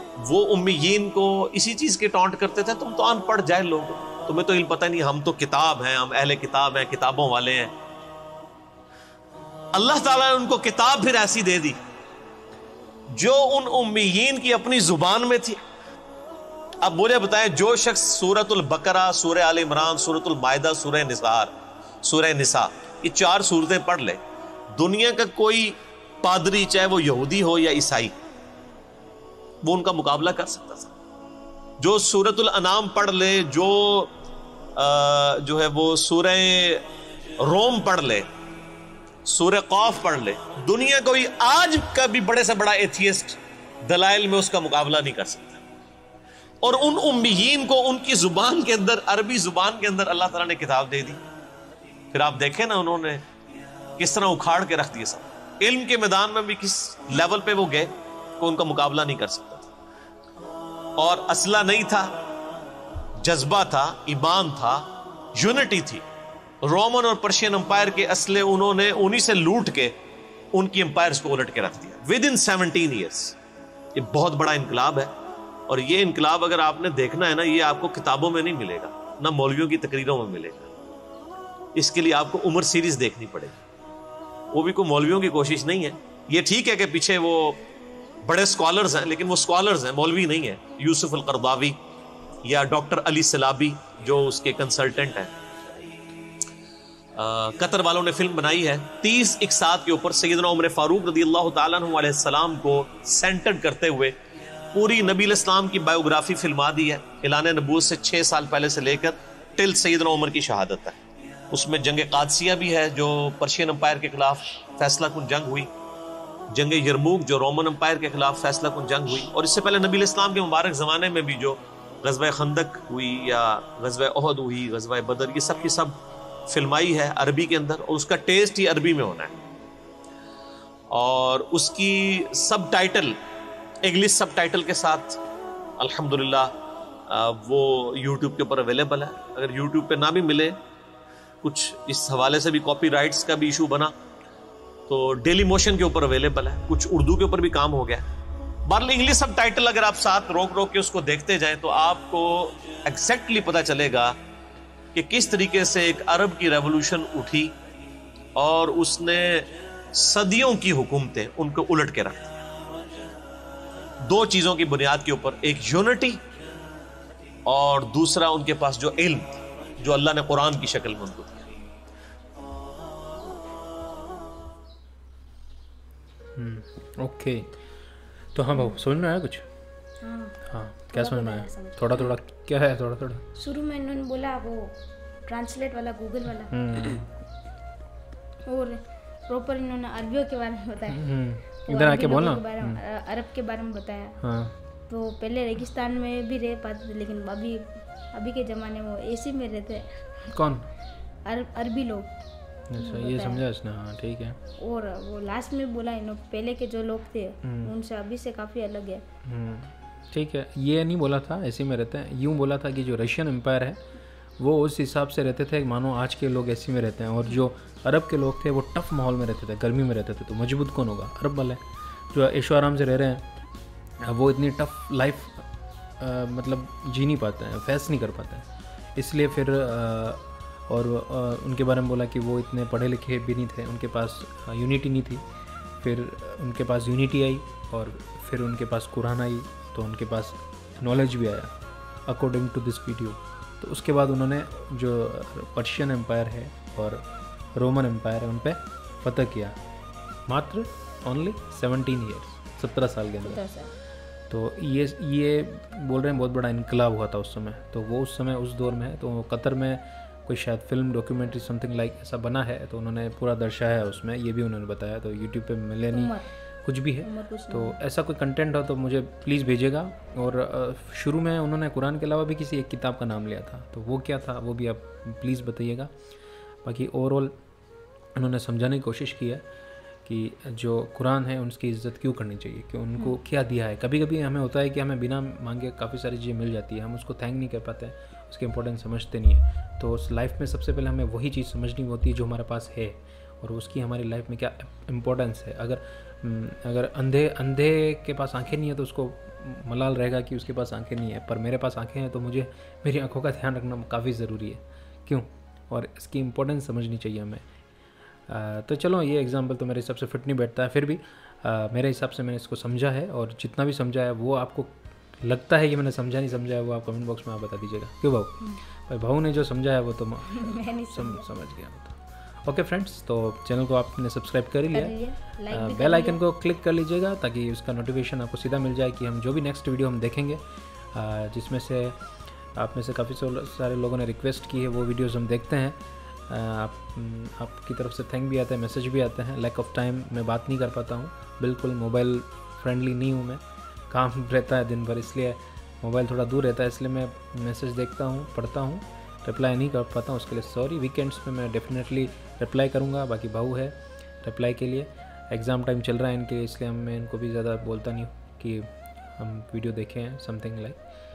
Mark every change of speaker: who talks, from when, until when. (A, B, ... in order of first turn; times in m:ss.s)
0:00.2-0:07.7 A
0:09.7-0:11.8 A
0:13.1-0:15.6 A
0:16.8-0:24.2 A
0:24.7-0:28.2 A
0:29.6-0:30.9 A
0:31.8-0:34.1 A
0:34.8-0:36.8 A
0:37.4-0:38.3 A
0:39.2-0:45.6 A
0:46.6-0:51.2 A
0:52.1-0:53.2 A
0:54.0-0:59.6 A
1:01.0-1:02.1 A
1:03.2-1:06.0 A
1:06.6-1:09.9 A
1:10.5-1:13.4 A
1:13.9-1:15.1 A
1:15.7-1:20.7 A
1:21.7-1:23.6 A
1:24.5-1:27.6 A
1:28.2-1:31.8 A
1:32.4-1:35.4 A
1:37.2-1:44.2 A
1:44.7-1:51.0 A
1:51.5-1:55.7 A
1:56.5-2:06.0 A
2:06.5-2:09.4 A
2:10.9-2:13.2 A
2:13.8-2:15.2 A
2:15.8-2:16.5 A
2:17.1-2:20.6 A
2:21.4-2:23.9 A
2:24.9-2:28.0 A
2:28.6-2:34.2 A
2:34.9-2:37.5 A
2:38.4-2:42.4 A
2:44.0-2:46.2 A
2:47.4-2:51.4 A
2:56.4-2:57.5 B
2:58.3-2:59.4 B
3:00.0-3:02.1 C
3:00.4-3:03.2 B
3:03.3-3:06.6 C
3:06.5-3:07.1 B
3:08.4-3:11.0 C
3:10.9-3:12.8 B
3:11.6-3:14.2 C
3:14.2-3:14.6 B
3:14.9-3:20.0 C
3:20.3-3:20.7 B
3:21.2-3:22.1 C
3:22.7-3:24.4 B
3:22.8-3:23.4 C
3:24.6-3:29.0 C
3:27.4-3:27.7 B
3:29.2-3:33.8 B
3:34.4-3:41.6 B
3:42.1-3:43.3 B
3:44.0-3:45.5 B
3:46.0-3:55.2 B
3:55.8-4:01.5 B
4:02.0-4:09.6 B
4:10.3-4:13.4 B
4:13.2-4:13.7 C
4:14.3-4:35.9 B
4:25.9-4:26.3 C
4:27.0-4:27.8 C
4:36.6-4:37.3 B
4:38.2-4:39.4 B
4:40.0-5:07.4 B
5:08.3-5:14.7 B
5:15.2-5:25.0 B
5:20.3-5:21.3 C
5:24.7-5:26.2 C
5:25.5-5:30.4 B
5:30.9-5:32.0 B
5:32.5-6:00.8 B